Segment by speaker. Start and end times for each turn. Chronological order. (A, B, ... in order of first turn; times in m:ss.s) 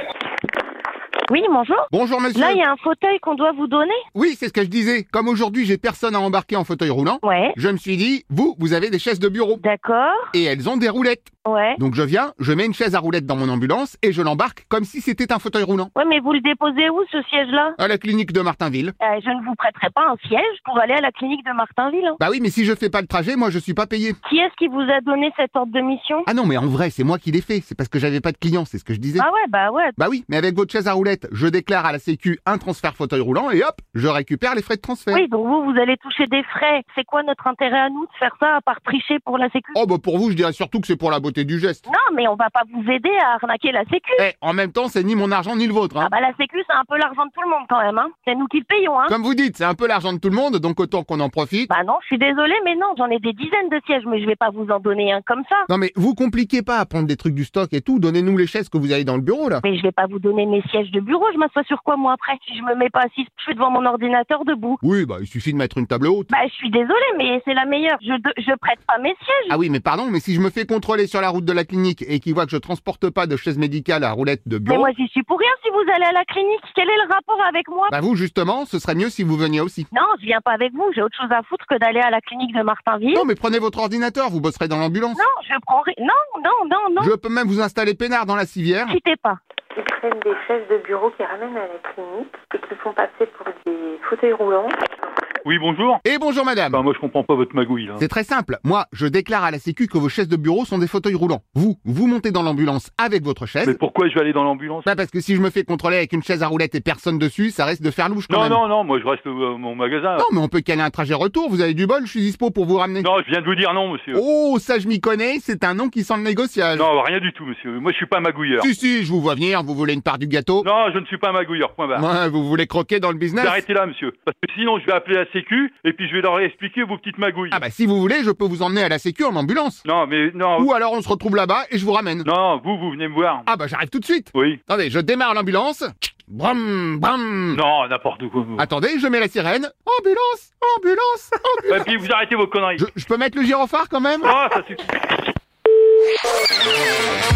0:01.3-0:04.0 A
0:01.9-0:02.6 B
0:04.1-0:09.6 B
0:07.2-0:07.6 A
0:09.6-0:10.3 A
0:10.3-0:15.9 B
0:11.5-0:11.8 A
0:16.0-0:17.8 A
0:17.8-0:19.0 B
0:19.0-0:22.2 A
0:22.2-0:24.2 B
0:24.2-0:26.3 A
0:26.3-0:29.3 B
0:29.2-0:30.0 A
0:30.0-0:35.2 B
0:35.1-0:39.8 A
0:39.8-0:41.8 B
0:41.9-0:44.2 A
0:44.2-0:46.1 B
0:46.0-0:49.1 A
0:49.1-0:51.7 B
0:51.7-0:55.7 A
0:55.7-0:59.6 B
0:59.6-1:04.8 A
1:04.8-1:06.3 B
1:06.3-1:09.6 A
1:09.5-1:14.9 B
1:14.7-1:17.9 A
1:17.9-1:19.9 B
1:19.9-1:23.3 A
1:23.1-1:25.2 B
1:25.2-1:27.1 A
1:27.0-1:29.0 B
1:28.9-1:29.4 A
1:29.8-1:34.8 C
1:35.4-1:36.0 D
1:36.0-1:36.8 B
1:36.7-1:38.0 D
1:38.0-1:43.8 B
1:43.6-1:44.9 D
1:44.8-1:48.6 B
1:48.3-1:50.3 D
1:50.2-1:53.1 B
1:53.0-1:54.2 D
1:54.1-1:56.9 B
1:56.7-1:58.7 D
1:58.6-2:00.7 B
2:00.6-2:02.0 D
2:01.9-2:03.6 B
2:03.4-2:07.6 D
2:07.5-2:09.8 B
2:09.8-2:10.7 D
2:10.6-2:12.3 B
2:12.2-2:13.5 D
2:13.5-2:17.6 B
2:14.3-2:14.6 D
2:17.5-2:18.7 D
2:18.6-2:21.9 B
2:21.7-2:22.9 D
2:22.8-2:24.3 B
2:24.2-2:24.9 D